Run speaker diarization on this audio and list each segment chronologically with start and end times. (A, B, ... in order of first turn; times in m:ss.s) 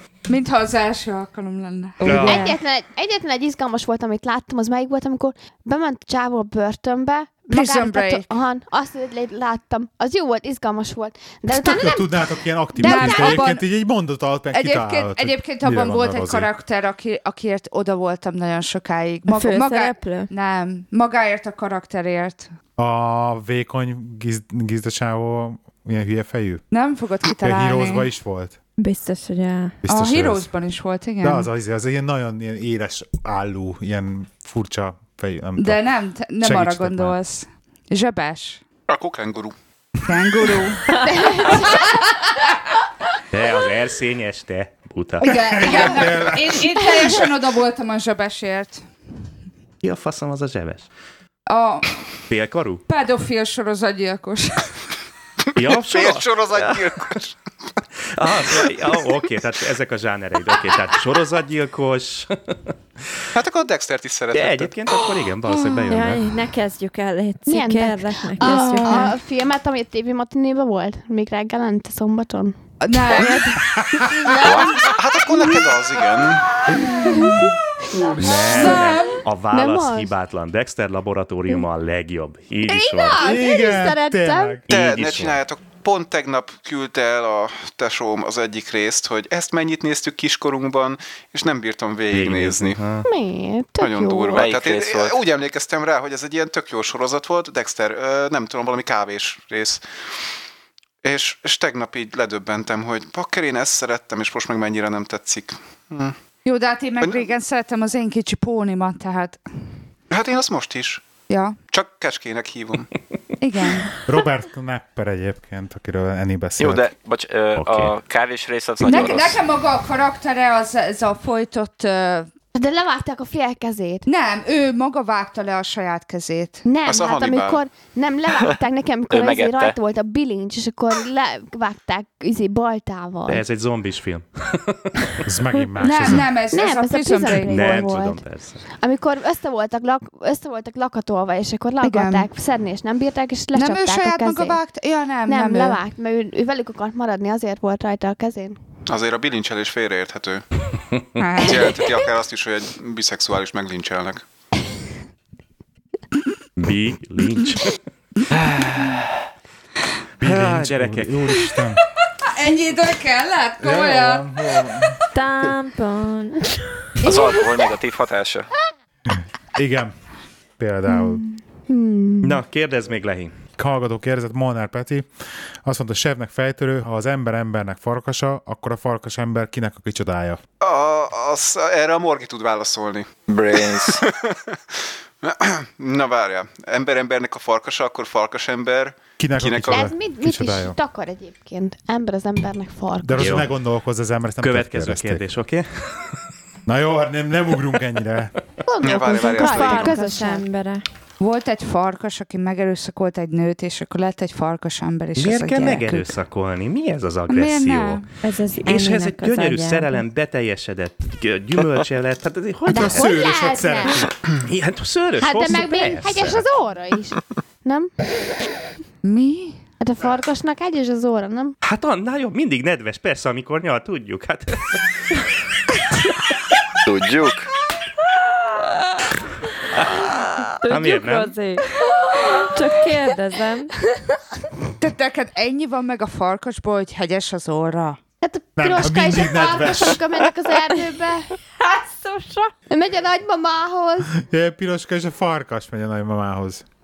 0:00.3-0:02.5 A
0:02.0-0:02.5 B
0:02.0-0:02.6 C
0:02.2-0:12.1 D
0:07.5-0:08.3 A
0:11.5-0:16.5 E
0:12.8-0:13.6 A
0:12.8-0:13.4 D
0:14.5-0:22.5 A
0:19.3-0:20.3 C
0:22.8-0:26.6 E
0:26.7-0:28.1 A
0:27.4-0:28.6 E
0:28.8-0:29.8 C
0:29.8-0:30.5 E
0:29.9-0:31.5 A
0:31.2-0:35.9 E
0:35.6-0:38.6 A
0:36.4-0:37.2 E
0:38.9-0:39.5 F
0:40.0-0:41.0 A
0:41.0-0:42.0 D
0:43.3-0:46.0 B
0:45.2-0:48.8 A
0:45.2-0:46.7 E
0:49.8-0:50.9 B
0:51.5-0:52.0 A
0:52.3-0:52.8 B
0:52.9-0:54.8 A
0:55.5-0:57.2 B
0:55.7-0:57.3 F
0:58.1-1:02.6 B
1:03.3-1:04.7 F
1:04.3-1:06.3 B
1:05.4-1:05.9 A
1:05.9-1:09.2 C
1:07.5-1:13.3 D
1:08.4-1:09.0 A
1:12.8-1:13.6 A
1:13.2-1:13.4 C
1:13.8-1:14.3 E
1:13.9-1:14.9 D
1:14.4-1:14.8 G
1:14.8-1:16.5 F
1:16.8-1:17.3 A
1:16.9-1:17.4 D
1:18.0-1:18.8 D
1:18.2-1:23.2 B
1:18.2-1:19.2 A
1:19.5-1:20.1 D
1:23.0-1:24.6 D
1:23.2-1:24.7 E
1:24.7-1:25.4 B
1:24.7-1:32.8 F
1:32.1-1:33.1 B
1:33.0-1:34.4 D
1:33.8-1:39.8 F
1:34.3-1:35.2 G
1:41.0-1:46.2 F
1:46.4-1:49.4 A
1:50.1-1:51.1 F
1:51.3-1:51.6 A
1:51.7-1:52.9 F
1:53.4-1:53.9 A
1:54.0-1:56.9 E
1:56.6-1:59.4 G
1:57.6-1:57.9 B
1:58.8-2:02.3 A
2:02.5-2:04.0 D
2:04.0-2:06.6 A
2:06.6-2:13.4 D
2:06.8-2:07.6 F
2:09.1-2:09.8 G
2:13.3-2:15.2 B
2:15.2-2:16.3 E
2:15.8-2:17.7 A
2:16.5-2:18.2 D
2:17.4-2:18.6 B
2:18.8-2:24.6 D
2:21.8-2:22.3 A
2:23.5-2:25.8 A
2:25.3-2:28.6 D
2:28.9-2:30.4 F
2:31.2-2:32.0 A
2:31.4-2:34.2 F
2:36.6-2:37.8 B
2:38.5-2:38.9 G
2:40.2-2:41.8 E
2:40.2-2:41.4 B
2:42.2-2:44.3 A
2:43.6-2:45.0 E
2:45.1-2:46.8 C
2:47.0-2:48.5 G
2:47.0-2:47.5 A
2:49.1-2:49.9 E
2:50.6-2:51.3 E
2:51.7-2:52.4 D
2:52.2-2:53.3 B
2:53.6-2:55.1 E
2:55.6-3:00.4 E
3:00.6-3:03.1 F
3:03.3-3:04.0 G
3:03.6-3:09.9 F
3:09.2-3:10.8 E
3:09.7-3:13.3 D
3:13.0-3:15.2 E
3:13.2-3:13.5 B
3:14.4-3:16.1 B
3:16.6-3:18.3 E
3:18.6-3:20.4 D
3:18.8-3:20.0 F
3:19.2-3:20.8 C
3:21.2-3:26.2 A
3:25.2-3:28.0 B
3:27.3-3:28.1 A
3:28.2-3:30.0 C
3:28.6-3:33.2 B
3:32.7-3:34.1 D
3:32.7-3:34.1 E
3:34.4-3:36.4 B
3:35.2-3:37.9 D
3:39.0-3:39.6 A
3:39.8-3:41.6 D
3:41.6-3:45.1 B
3:46.8-3:47.5 G
3:49.7-3:51.4 B
3:50.6-3:53.7 C
3:54.8-3:58.0 A
3:58.2-4:01.3 D
3:58.6-4:00.0 E
4:01.6-4:02.5 C
4:02.7-4:04.1 D
4:04.1-4:06.6 E